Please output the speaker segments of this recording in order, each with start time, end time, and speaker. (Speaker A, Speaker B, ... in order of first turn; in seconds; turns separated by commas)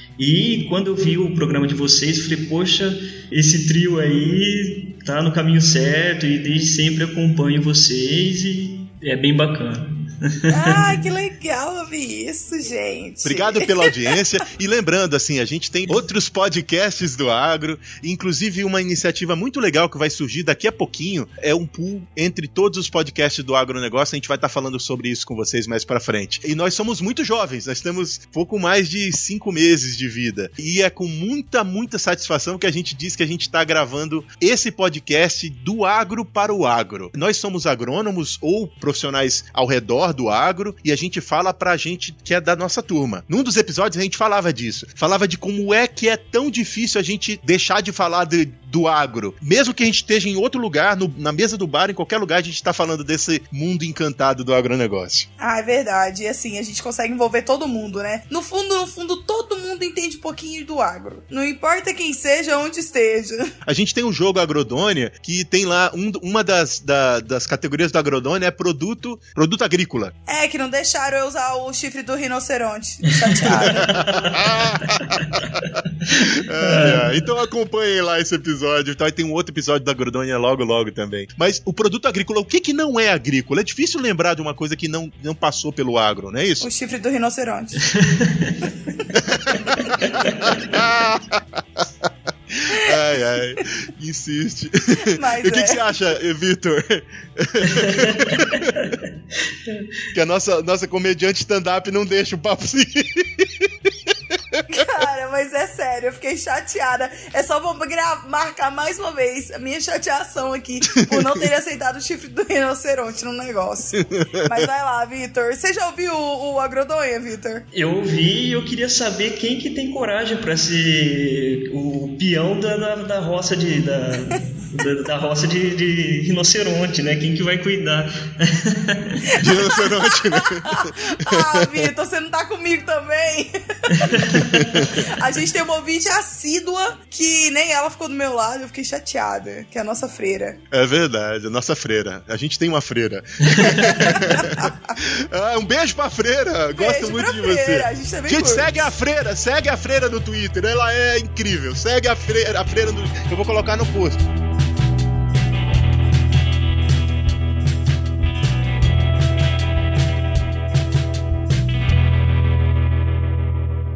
Speaker A: 0.2-10.8, Speaker B: 10.5-14.2, Speaker C: 13.2-55.2, Speaker B: 55.4-63.5, Speaker C: 63.6-70.1, Speaker B: 70.3-74.0, Speaker A: 73.3-77.0, Speaker C: 73.6-75.6, Speaker C: 76.1-86.7, Speaker B: 86.6-88.0, Speaker A: 87.9-88.6, Speaker C: 89.3-98.9, Speaker A: 89.7-90.6, Speaker B: 95.0-95.8, Speaker A: 97.7-99.0, Speaker C: 100.1-104.6, Speaker B: 104.7-117.7, Speaker C: 110.9-111.5, Speaker C: 114.0-114.6, Speaker A: 117.7-129.3, Speaker C: 129.4-131.9, Speaker B: 129.4-140.6, Speaker A: 133.9-134.8, Speaker C: 134.4-135.1, Speaker C: 140.7-154.2, Speaker B: 143.7-144.9, Speaker B: 146.7-148.9